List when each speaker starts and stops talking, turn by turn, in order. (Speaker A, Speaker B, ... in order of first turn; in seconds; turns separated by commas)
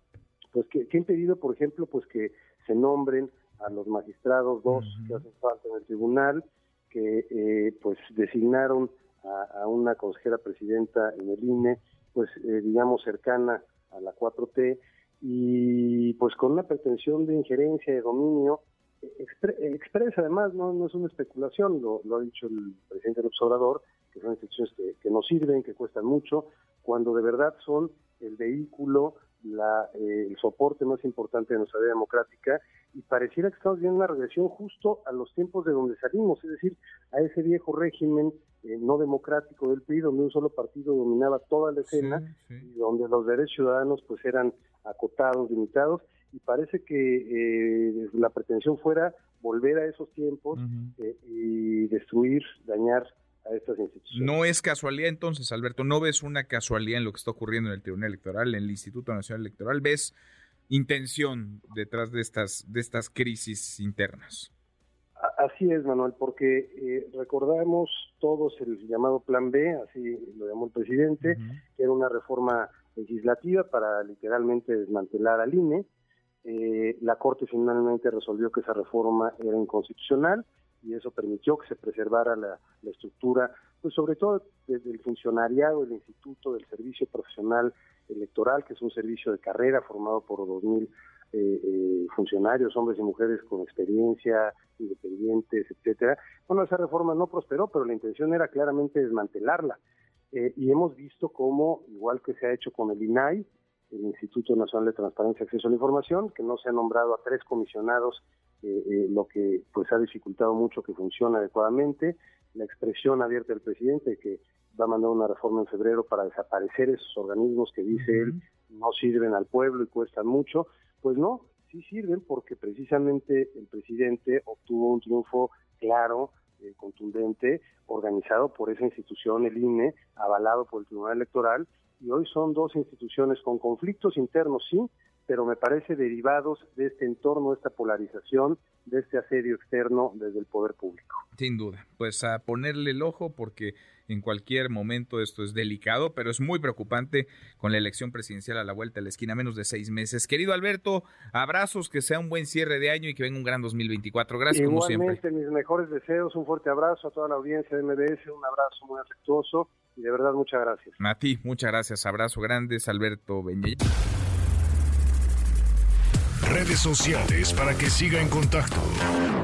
Speaker A: 0.5-54.3, Speaker B: 4.7-5.2, Speaker B: 41.9-42.7, Speaker B: 50.5-50.9, Speaker B: 54.1-60.1, Speaker B: 60.7-64.5, Speaker A: 65.2-75.9, Speaker B: 71.2-71.6, Speaker A: 76.4-99.8, Speaker A: 100.3-141.2, Speaker B: 117.9-118.4, Speaker B: 141.4-155.2, Speaker A: 154.5-161.0, Speaker B: 161.0-163.8, Speaker C: 166.4-169.0